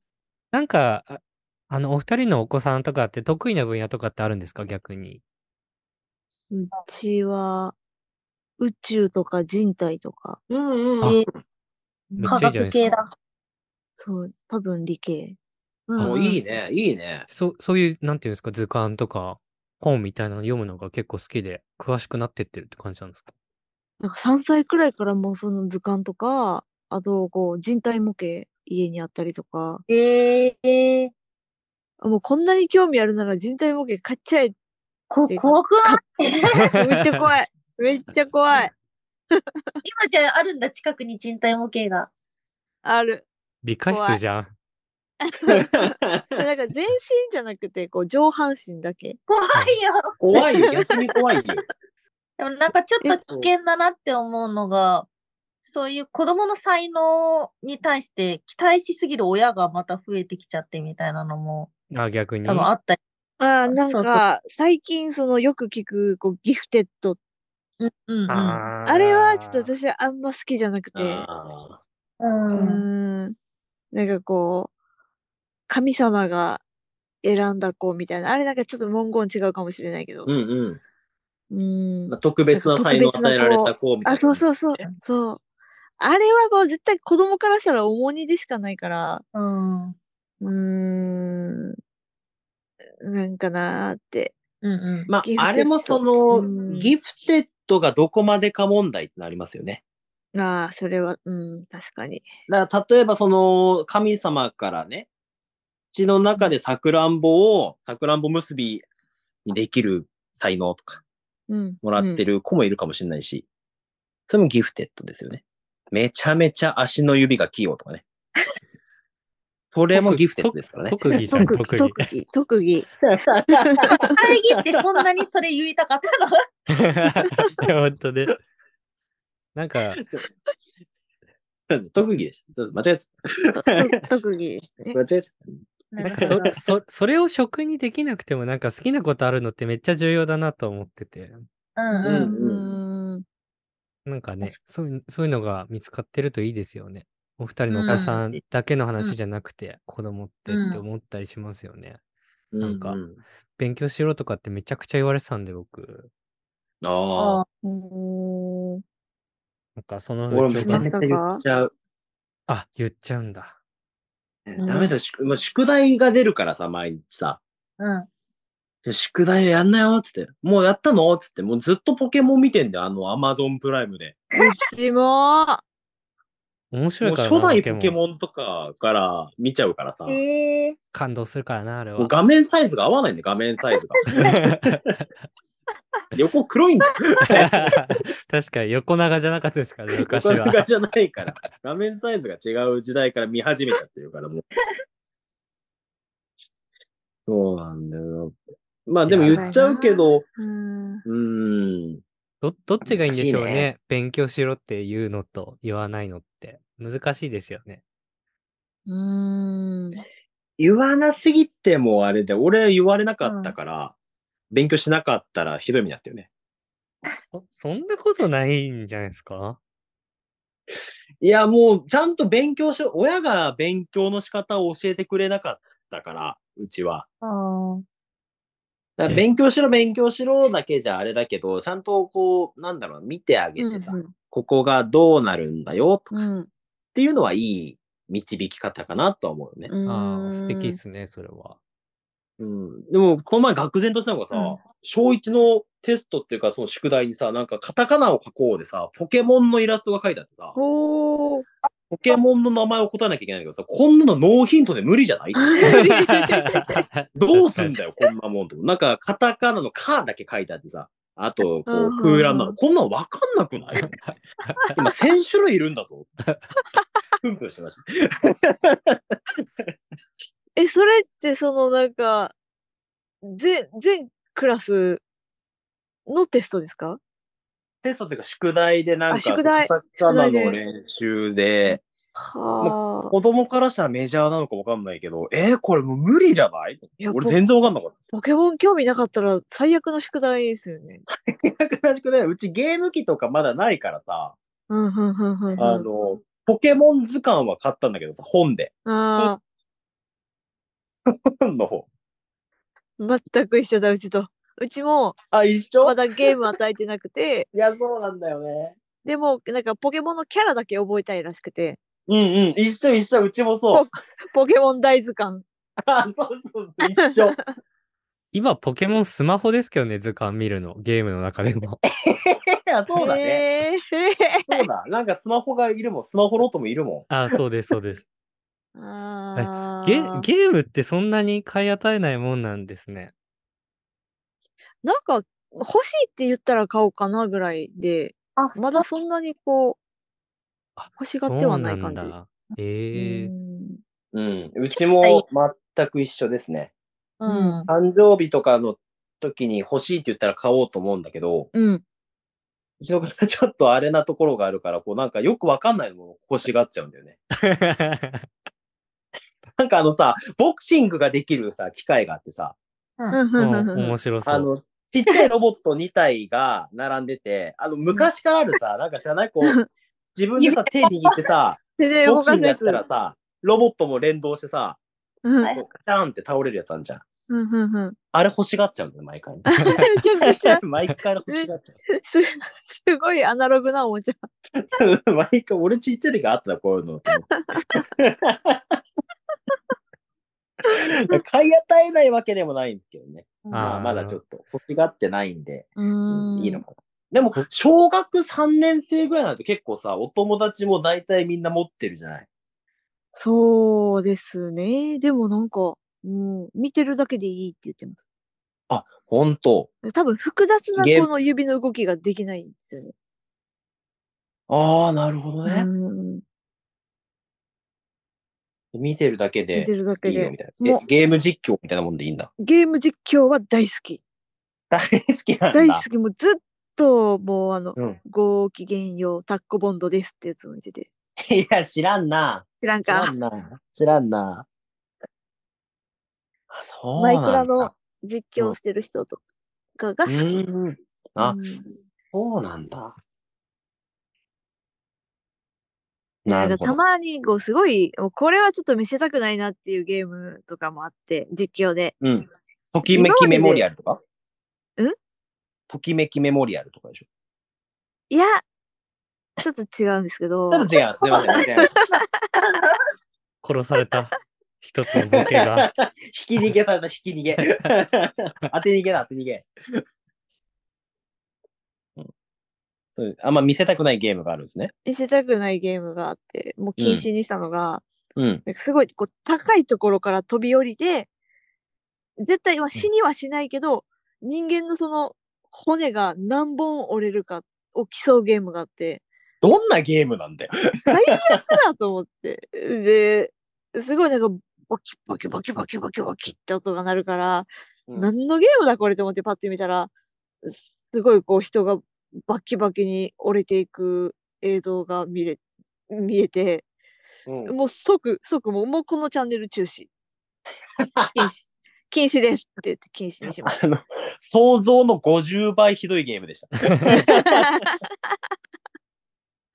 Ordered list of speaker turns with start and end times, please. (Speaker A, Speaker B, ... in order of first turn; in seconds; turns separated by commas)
Speaker A: 0.5-5.2, Speaker B: 6.5-7.7, Speaker B: 8.6-10.4, Speaker C: 10.5-11.2, Speaker B: 12.2-12.4, Speaker A: 12.2-12.9, Speaker D: 12.2-13.1, Speaker B: 14.0-15.4, Speaker D: 15.9-16.4, Speaker C: 16.0-17.3, Speaker A: 17.3-23.3, Speaker B: 24.0-29.8, Speaker D: 29.9-31.1, Speaker B: 32.0-34.5, Speaker D: 35.1-36.5, Speaker B: 35.3-38.7, Speaker A: 36.7-37.3, Speaker D: 39.8-42.1, Speaker B: 42.8-43.3, Speaker A: 43.6-44.5, Speaker B: 43.9-44.2, Speaker B: 45.3-49.2, Speaker C: 45.5-46.4, Speaker D: 49.3-50.2, Speaker C: 50.2-51.6, Speaker D: 52.4-55.1, Speaker D: 55.6-61.7, Speaker A: 61.9-62.7, Speaker D: 62.5-63.0, Speaker B: 63.4-67.2, Speaker D: 63.7-64.2, Speaker D: 67.8-68.7, Speaker A: 68.3-69.7, Speaker B: 68.8-71.3, Speaker C: 71.0-71.8, Speaker D: 72.2-72.8, Speaker B: 72.5-73.3, Speaker B: 73.9-74.7, Speaker B: 75.7-76.6, Speaker B: 77.2-80.3, Speaker C: 80.3-80.8, Speaker B: 81.5-85.4, Speaker C: 82.1-84.5, Speaker B: 86.0-89.2, Speaker D: 89.3-90.0, Speaker B: 90.4-91.8, Speaker B: 93.0-94.3, Speaker D: 94.6-95.1, Speaker C: 95.1-99.8, Speaker B: 95.2-96.9, Speaker D: 96.3-96.9, Speaker B: 100.3-102.3, Speaker C: 102.5-105.1, Speaker C: 105.9-108.8, Speaker C: 109.5-111.0, Speaker B: 111.5-112.2, Speaker C: 111.8-113.5, Speaker C: 114.3-118.0, Speaker C: 119.7-121.5, Speaker A: 119.9-122.1, Speaker B: 121.3-122.9, Speaker C: 123.0-125.0, Speaker B: 123.5-124.1, Speaker D: 124.1-126.4, Speaker A: 126.7-128.4, Speaker A: 129.6-130.0, Speaker C: 130.0-130.2, Speaker C: 131.7-133.9, Speaker B: 133.6-135.0, Speaker C: 134.9-136.7, Speaker D: 135.9-136.5, Speaker A: 136.0-141.4, Speaker D: 141.8-142.3, Speaker B: 141.9-143.2, Speaker C: 142.0-142.7, Speaker A: 144.1-152.0, Speaker D: 147.7-148.2, Speaker C: 147.9-148.4, Speaker D: 150.5-150.8, Speaker C: 152.5-153.2, Speaker A: 152.6-153.0, Speaker A: 153.6-156.1, Speaker C: 156.8-157.4, Speaker D: 157.2-157.4, Speaker B: 157.6-158.8, Speaker A: 159.8-160.9, Speaker C: 160.3-161.7, Speaker B: 160.6-161.4, Speaker A: 162.5-163.6, Speaker C: 164.5-167.4, Speaker B: 164.6-164.9, Speaker D: 167.8-168.1, Speaker C: 168.8-174.2, Speaker B: 174.4-175.6, Speaker A: 176.7-178.0, Speaker C: 177.0-180.2, Speaker D: 180.1-180.8, Speaker A: 180.9-182.1, Speaker C: 182.0-184.8, Speaker A: 184.1-185.1, Speaker C: 186.1-187.7, Speaker A: 187.3-190.6, Speaker C: 190.0-194.4, Speaker C: 197.2-200.2, Speaker A: 199.1-199.5, Speaker B: 199.3-201.1, Speaker C: 201.1-202.0, Speaker A: 202.4-207.8, Speaker C: 202.8-203.7, Speaker B: 208.9-210.0, Speaker C: 210.6-213.9, Speaker D: 213.2-213.6, Speaker C: 214.5-216.3, Speaker A: 217.3-219.6, Speaker C: 221.2-227.1, Speaker D: 227.2-227.8, Speaker C: 229.0-236.2, Speaker B: 233.6-234.1, Speaker B: 236.1-236.5, Speaker C: 236.9-239.7, Speaker B: 239.7-240.8, Speaker A: 239.9-241.6, Speaker C: 242.4-250.6, Speaker B: 244.3-244.6, Speaker B: 250.6-251.5, Speaker C: 251.9-255.9, Speaker B: 255.4-256.8, Speaker A: 255.7-257.8, Speaker C: 257.1-263.9, Speaker B: 261.7-262.6, Speaker A: 263.8-264.6, Speaker C: 264.8-266.1, Speaker C: 267.2-269.7, Speaker B: 270.6-272.3, Speaker B: 273.2-275.0, Speaker B: 276.1-277.0, Speaker C: 277.8-281.8, Speaker B: 279.1-280.6, Speaker B: 281.7-283.1, Speaker C: 282.6-287.9, Speaker B: 287.0-287.4, Speaker B: 288.1-291.0, Speaker C: 291.3-294.4, Speaker B: 294.7-295.9, Speaker C: 295.6-299.3, Speaker B: 298.9-299.4, Speaker C: 301.1-301.9, Speaker B: 303.0-305.2, Speaker C: 305.3-306.0, Speaker B: 305.8-307.5, Speaker C: 307.5-308.8, Speaker B: 309.1-311.8, Speaker C: 312.1-313.9, Speaker B: 313.7-315.4, Speaker C: 315.9-317.4, Speaker B: 317.1-317.4, Speaker A: 318.3-321.8, Speaker C: 322.1-323.4, Speaker B: 322.9-324.6, Speaker C: 324.5-327.1, Speaker A: 327.1-328.1, Speaker B: 328.8-330.3, Speaker A: 329.4-333.1, Speaker B: 334.8-339.8, Speaker D: 338.4-338.8, Speaker A: 340.8-343.3, Speaker B: 341.0-342.1, Speaker B: 342.9-343.8, Speaker C: 344.1-346.7, Speaker D: 344.8-345.2, Speaker D: 347.2-347.7, Speaker B: 347.3-347.6, Speaker C: 347.7-351.5, Speaker B: 351.5-351.8, Speaker C: 352.8-357.2, Speaker A: 357.4-358.3, Speaker C: 359.6-362.6, Speaker B: 363.1-363.9, Speaker A: 363.4-364.5, Speaker C: 364.2-369.6, Speaker C: 370.1-374.8, Speaker B: 370.4-370.7, Speaker B: 371.8-372.8, Speaker B: 375.2-375.5, Speaker C: 375.5-377.0, Speaker B: 377.3-378.0, Speaker C: 378.1-381.8, Speaker B: 379.5-380.6, Speaker B: 381.3-384.3, Speaker C: 384.6-388.8, Speaker B: 387.4-387.8, Speaker C: 390.7-402.3, Speaker D: 393.4-393.7, Speaker A: 393.5-394.2, Speaker B: 395.8-396.6, Speaker B: 403.1-408.0, Speaker C: 408.7-409.7, Speaker B: 409.8-412.9, Speaker C: 410.8-411.1, Speaker C: 414.5-415.7, Speaker B: 415.4-416.2, Speaker C: 418.7-422.3, Speaker B: 419.6-420.8, Speaker B: 422.4-424.0, Speaker C: 424.7-425.8, Speaker B: 425.5-430.9, Speaker C: 431.3-434.5, Speaker B: 432.6-433.1, Speaker C: 436.5-437.7, Speaker B: 437.0-439.2, Speaker B: 439.8-440.4, Speaker C: 440.1-441.4, Speaker B: 441.2-441.8, Speaker C: 442.1-443.0, Speaker C: 446.2-446.8, Speaker B: 446.3-451.9, Speaker C: 452.0-454.0, Speaker B: 452.9-453.6, Speaker C: 455.7-457.1, Speaker B: 458.1-458.4, Speaker B: 459.4-462.0, Speaker C: 460.5-461.7, Speaker A: 463.4-465.7, Speaker C: 465.1-469.8, Speaker C: 472.9-474.7, Speaker B: 474.9-477.9, Speaker C: 476.8-477.1, Speaker C: 478.2-478.4, Speaker B: 478.4-481.1, Speaker B: 482.2-489.0, Speaker C: 489.4-491.5, Speaker B: 490.9-499.9, Speaker B: 500.4-506.6, Speaker C: 507.3-507.5, Speaker B: 507.5-509.9, Speaker C: 510.8-511.3, Speaker B: 511.1-513.6, Speaker C: 513.4-517.7, Speaker B: 517.1-517.8